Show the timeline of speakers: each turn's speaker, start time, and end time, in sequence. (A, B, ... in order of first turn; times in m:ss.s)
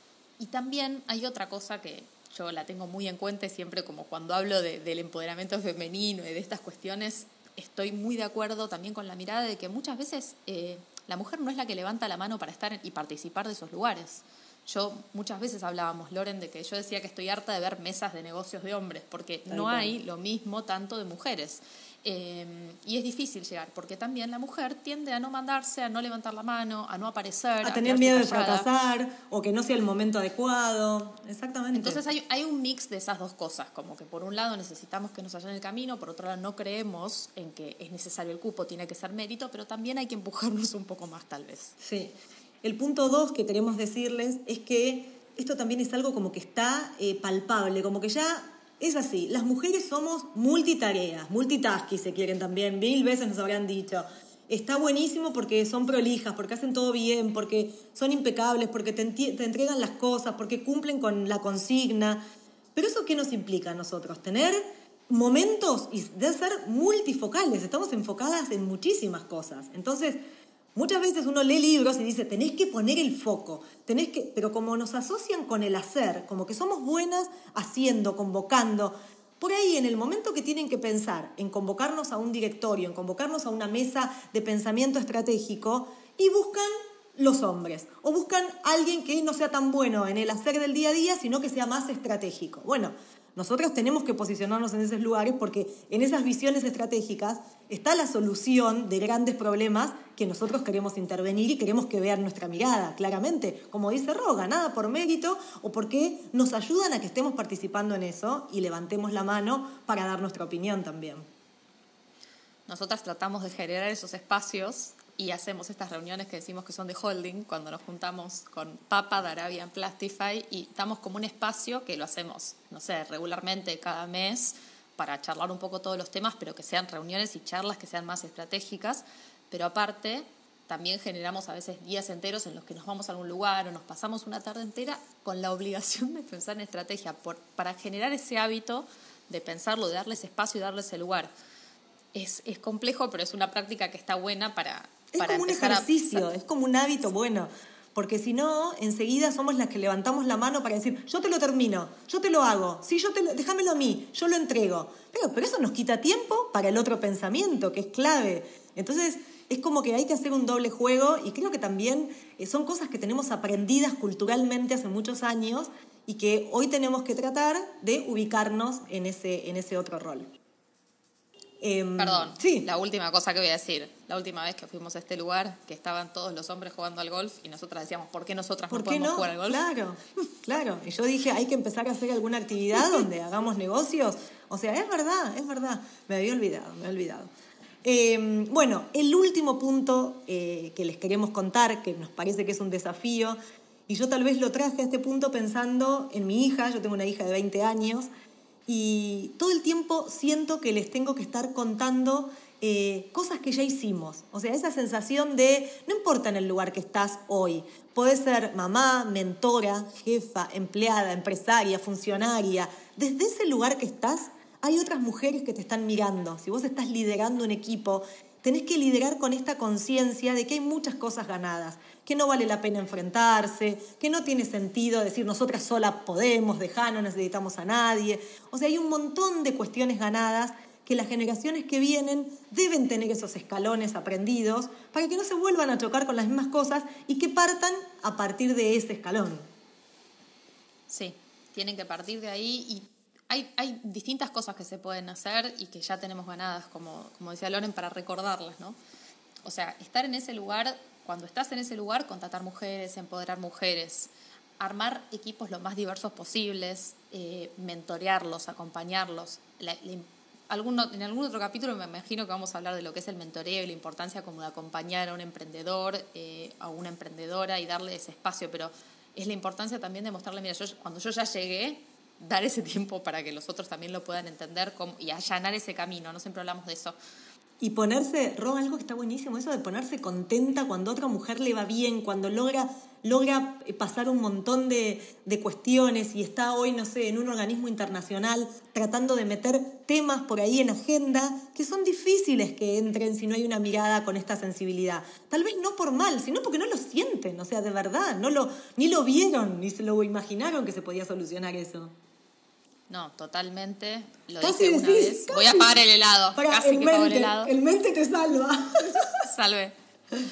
0:00.4-0:28.7 A
0:19.5-0:19.9 B
0:27.6-0:32.0 B
0:31.7-0:41.7 A
0:41.8-1:02.2 B
1:02.7-1:10.2 B
1:10.7-1:51.2 B
1:52.7-2:21.3 A
2:22.1-2:26.3 A
2:25.1-2:50.3 B
2:51.6-2:52.6 B
2:52.0-2:59.6 A
2:58.7-3:07.3 B
3:07.8-3:13.4 B
3:13.9-3:18.1 B
3:18.7-3:59.5 B
4:00.9-4:08.8 A
4:09.4-4:37.0 A
4:37.6-5:01.9 B
5:02.9-5:07.5 A
5:04.4-5:05.8 B
5:06.3-5:09.2 B
5:09.1-5:09.7 A